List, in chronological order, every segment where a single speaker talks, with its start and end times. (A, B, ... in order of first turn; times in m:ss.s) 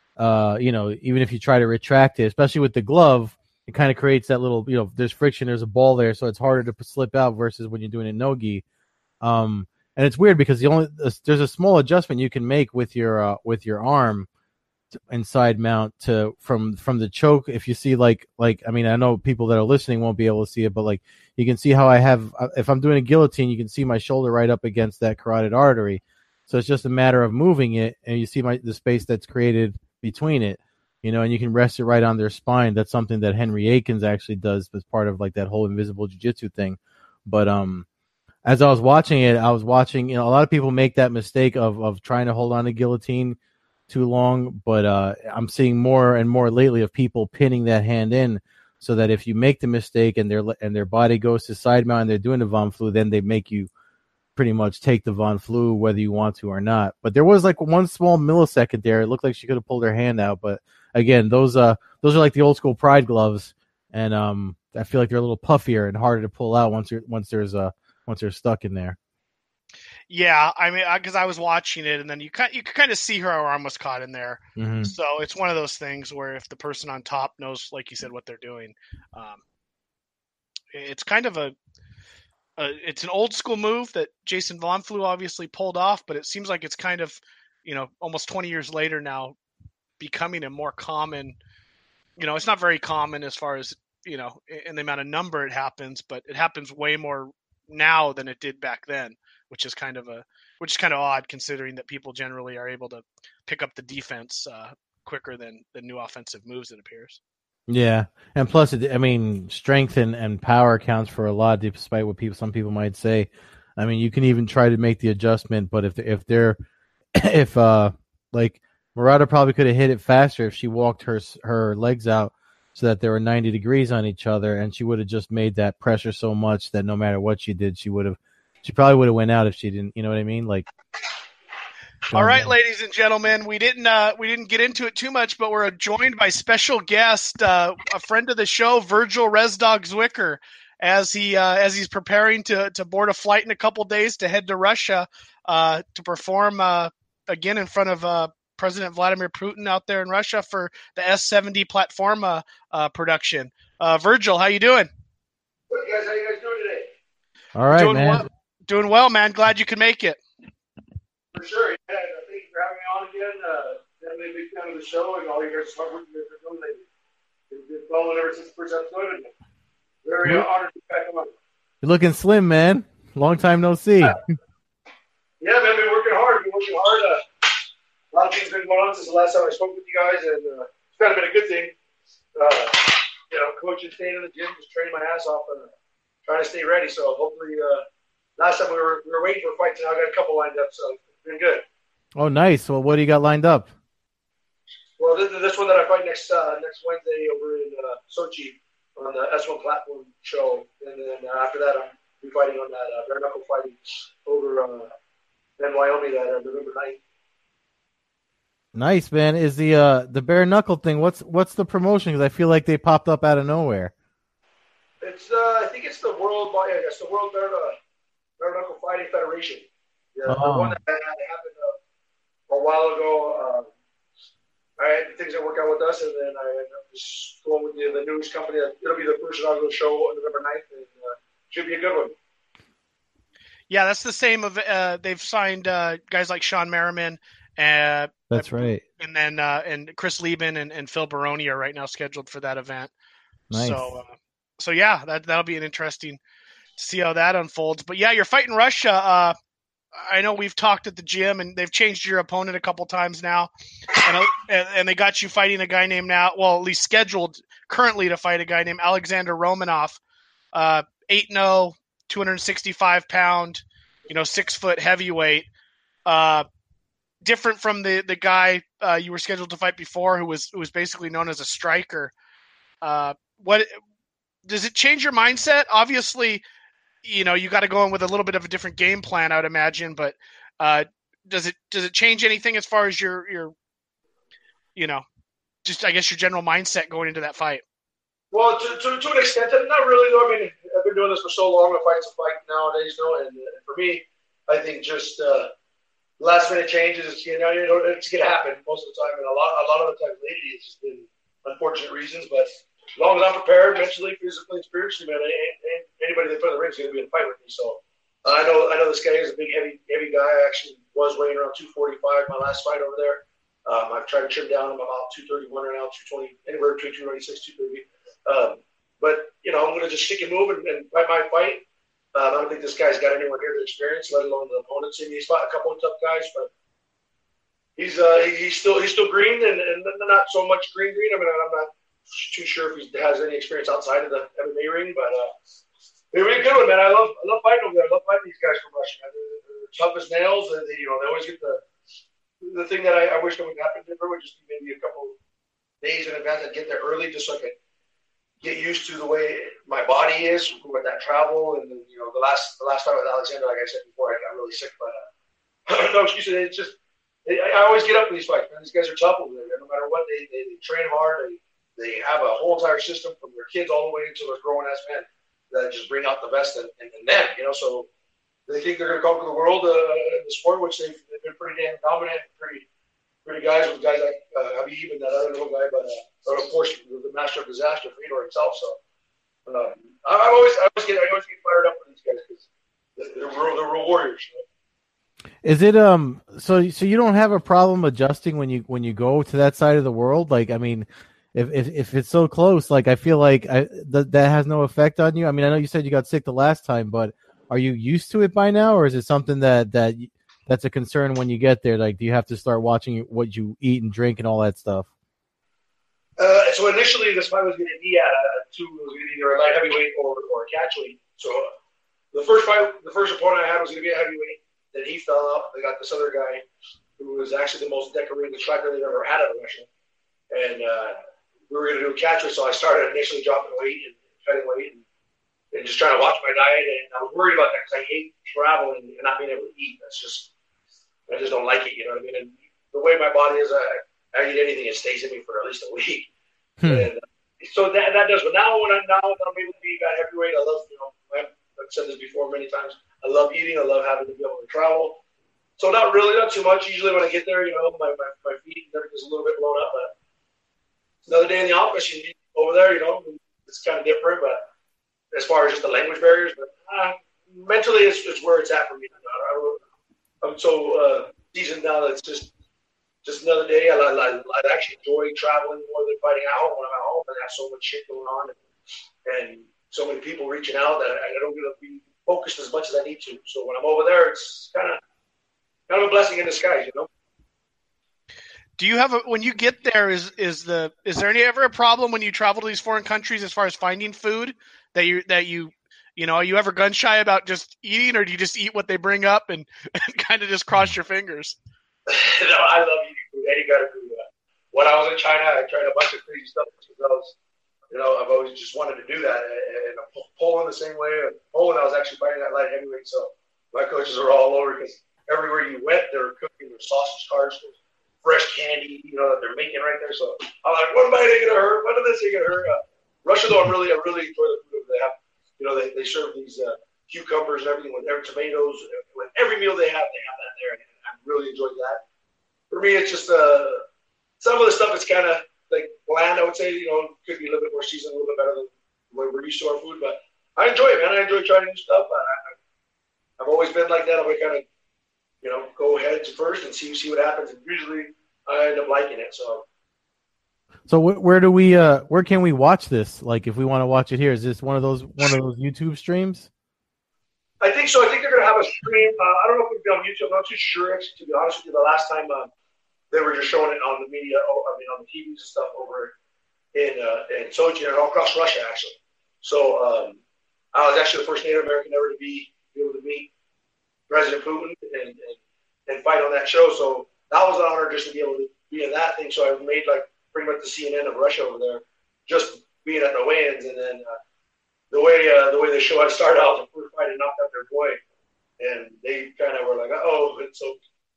0:00.2-0:08.6 A
0:09.2-0:14.3 A
0:15.0-0:37.9 A
0:38.4-0:43.4 A
0:43.9-0:53.7 A
0:54.4-1:09.0 A
1:10.1-1:19.4 B
1:14.6-1:15.0 A
1:20.7-1:21.5 B
1:22.6-1:29.4 B
1:30.0-1:31.4 B
1:32.2-1:47.2 B
1:47.7-1:56.6 A
1:57.2-2:10.7 A
2:12.1-2:12.5 A
2:12.1-2:34.9 B
2:35.7-2:36.9 C
2:37.6-2:38.3 A
2:37.7-2:40.2 B
2:41.3-2:46.8 C
2:47.5-2:49.3 C
2:50.0-2:51.3 C
2:51.8-2:54.2 A
2:55.4-2:57.2 C
2:58.1-3:01.8 C
3:02.4-3:05.7 C
3:06.2-3:07.8 C
3:08.4-3:11.6 C
3:12.1-3:13.7 A
3:15.0-3:24.9 C
3:25.6-3:27.0 C
3:28.8-3:33.9 A
3:35.0-3:37.8 C
3:38.4-3:41.8 C
3:40.3-3:40.8 A
3:42.5-3:43.7 C
3:44.8-3:52.2 C
3:53.7-4:02.9 B
3:58.3-3:58.8 A
4:03.5-4:04.0 A
4:03.5-4:06.2 B
4:06.8-4:09.3 B
4:09.9-4:20.0 B
4:20.5-4:25.5 B
4:26.1-4:26.4 B
4:27.2-4:32.1 B
4:32.8-4:33.7 B
4:34.4-4:36.4 B
4:37.0-4:43.5 B
4:44.8-4:45.0 B
4:45.6-4:47.6 B
4:48.3-4:55.5 C
4:56.2-5:21.6 C
5:22.2-5:26.5 C
5:27.8-5:35.3 C
5:36.1-5:41.6 C
5:42.4-5:45.2 C
5:45.8-5:47.6 C
5:48.4-5:55.0 C
5:55.7-5:56.8 C
5:57.3-6:07.9 C
6:08.5-6:12.7 C
6:13.2-6:18.8 C
6:19.5-6:22.4 C
6:23.0-6:24.4 C
6:25.4-6:44.9 A
6:46.2-6:51.5 C
6:52.1-6:56.4 C
6:57.0-6:59.7 C
7:00.3-7:01.0 C
7:01.5-7:04.8 C
7:05.5-7:10.3 C
7:11.1-7:16.1 C
7:16.6-7:16.9 A
7:16.7-7:25.0 C
7:25.6-7:29.9 C
7:31.1-7:34.4 C
7:35.1-7:39.6 C
7:40.2-7:42.3 C
7:43.0-7:48.4 C
7:49.0-7:54.8 C
7:55.7-7:56.9 C
7:58.6-8:11.4 B
8:11.9-8:17.2 C
8:17.7-8:41.8 C
8:42.5-8:43.6 C
8:44.2-8:52.4 C
8:53.2-8:54.4 C
8:55.2-8:59.4 C
9:00.7-9:06.3 A
9:07.4-9:12.3 C
9:12.9-9:15.9 C
9:16.6-9:20.0 C
9:20.5-9:23.1 C
9:23.9-9:34.0 C
9:34.7-9:37.8 C
9:38.4-9:40.6 C